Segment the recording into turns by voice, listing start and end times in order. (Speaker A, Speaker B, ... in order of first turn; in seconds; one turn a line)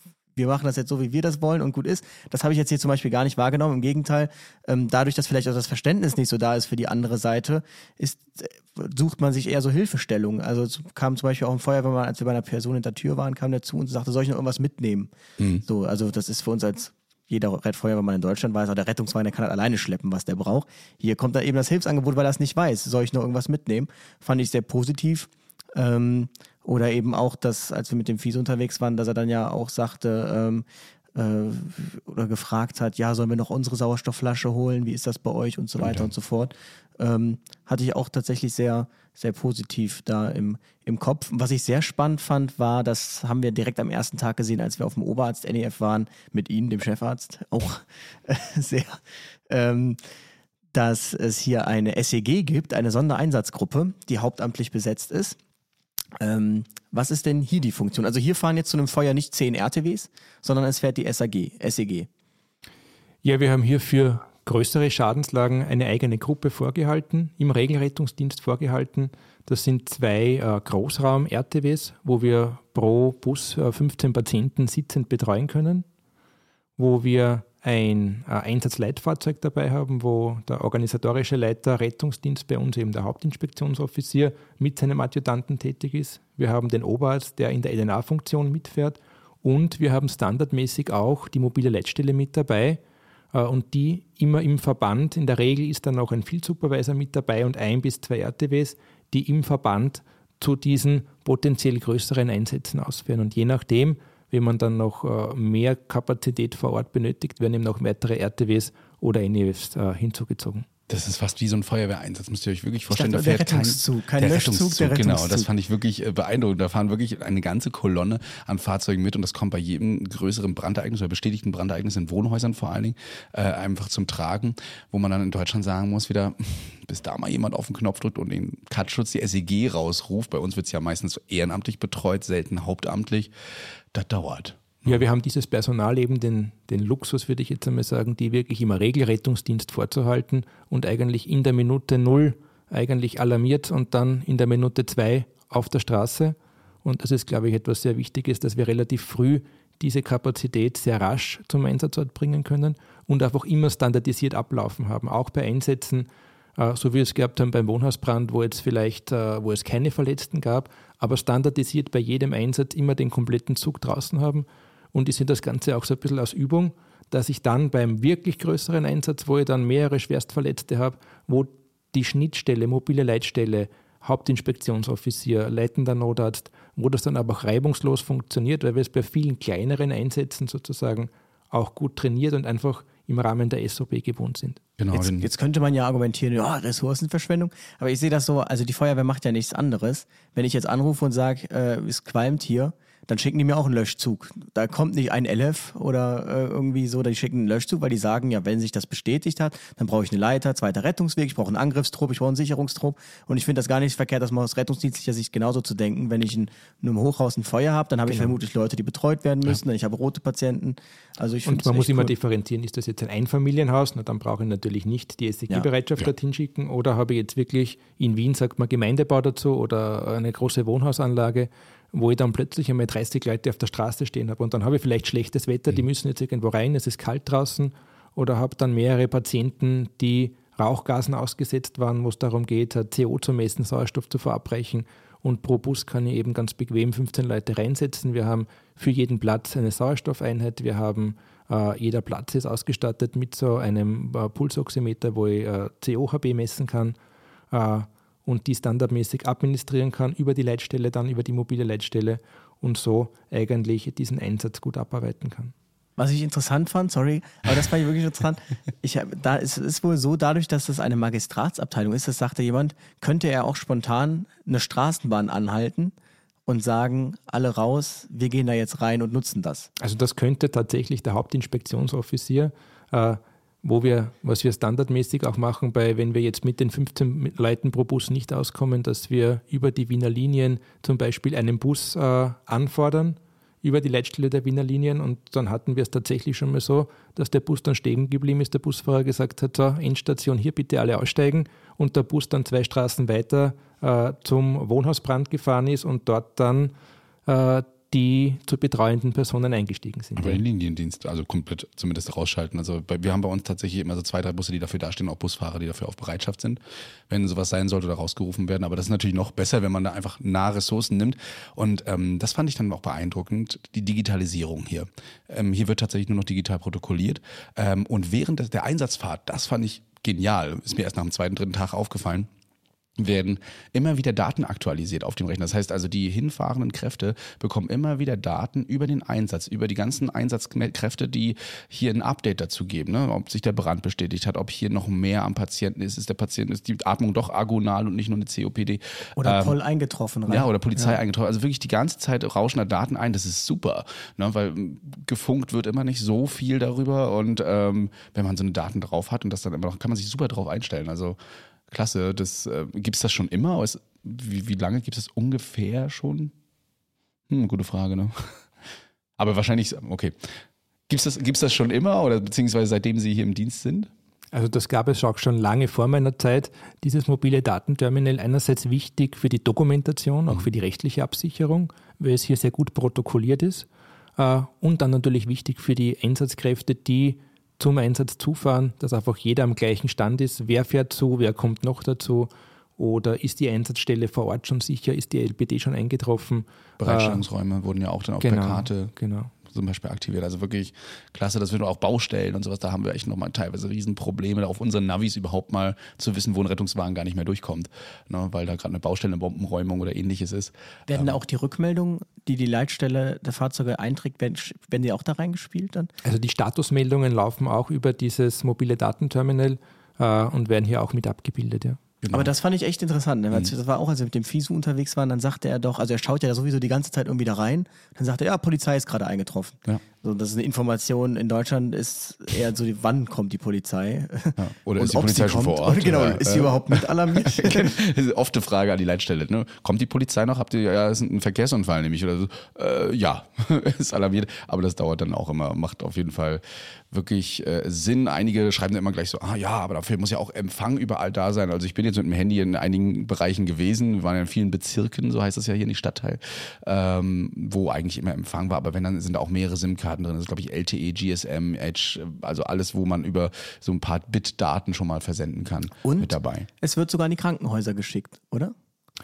Speaker A: 0.3-15.1
Speaker A: 15.6-50.0
Speaker B: 35.8-36.1
Speaker A: 50.7-55.4
Speaker A: 56.2-62.1
Speaker C: 63.2-75.8
Speaker C: 76.8-92.8
Speaker C: 93.3-110.7
Speaker B: 110.9-133.3
Speaker A: 112.9-115.5
Speaker B: 133.9-135.0
Speaker C: 134.9-184.6
Speaker B: 184.8-185.3
Speaker A: 184.9-212.1
Speaker C: 211.5-246.9
Speaker C: 247.5-255.5
Speaker A: 256.0-265.9
Speaker A: 266.5-269.7
Speaker C: 269.8-296.7
Speaker C: 297.3-300.4
Speaker B: 300.2-322.3
Speaker B: 323.0-339.6
Speaker A: 339.2-341.0
Speaker B: 340.3-351.2
Speaker B: 351.7-356.3
Speaker B: 357.3-358.3
Speaker B: 359.2-360.2
Speaker B: 360.9-363.9
Speaker C: 364.3-387.2
Speaker B: 386.8-388.9
Speaker C: 388.2-389.3
Speaker B: 389.4-401.2
Speaker A: 400.9-405.9
Speaker C: 406.0-411.8
Speaker B: 412.0-412.3
Speaker A: 412.1-427.7
Speaker B: 424.4-456.5
Speaker A: 455.8-458.5